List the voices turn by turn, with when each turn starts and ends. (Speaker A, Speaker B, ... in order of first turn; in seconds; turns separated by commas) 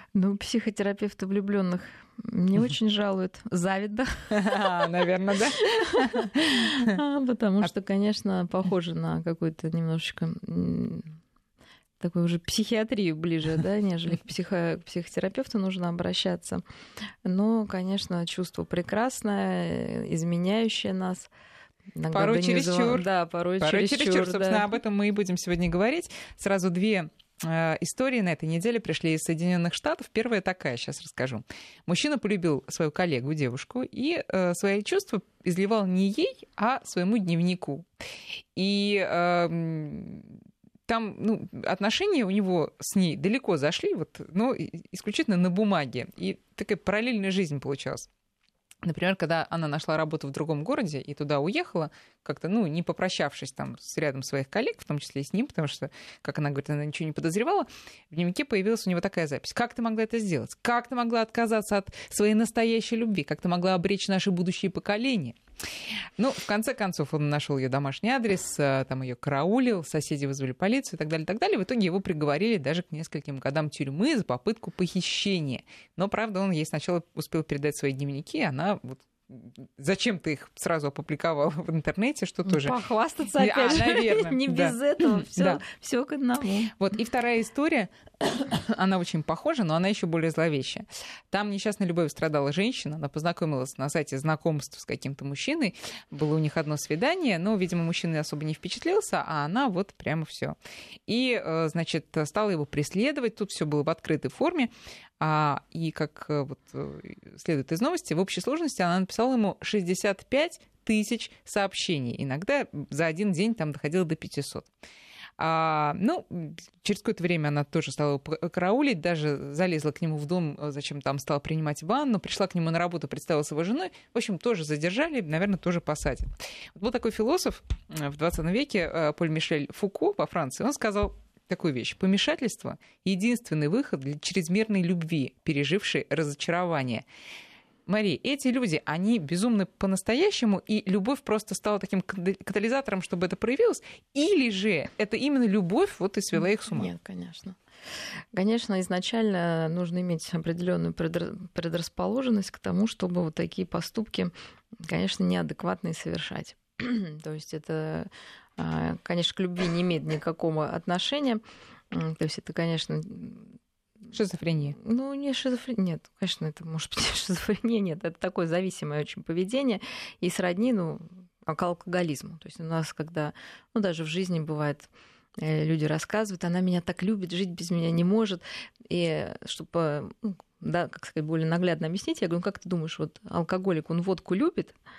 Speaker A: 0.1-4.9, Speaker B: 4.3-7.0, Speaker A: 5.6-11.2, Speaker A: 12.0-16.6, Speaker A: 17.2-21.3, Speaker A: 21.9-24.7, Speaker B: 22.1-23.1, Speaker B: 23.6-37.9, Speaker B: 38.6-40.4, Speaker B: 40.9-48.1, Speaker B: 48.8-65.4, Speaker B: 66.2-82.8, Speaker A: 82.5-86.7, Speaker B: 83.4-85.6, Speaker B: 86.7-100.6, Speaker B: 101.1-114.7, Speaker B: 115.4-137.1, Speaker B: 137.9-146.9, Speaker A: 146.7-147.6, Speaker A: 148.3-163.6, Speaker B: 164.1-164.8, Speaker A: 164.8-184.8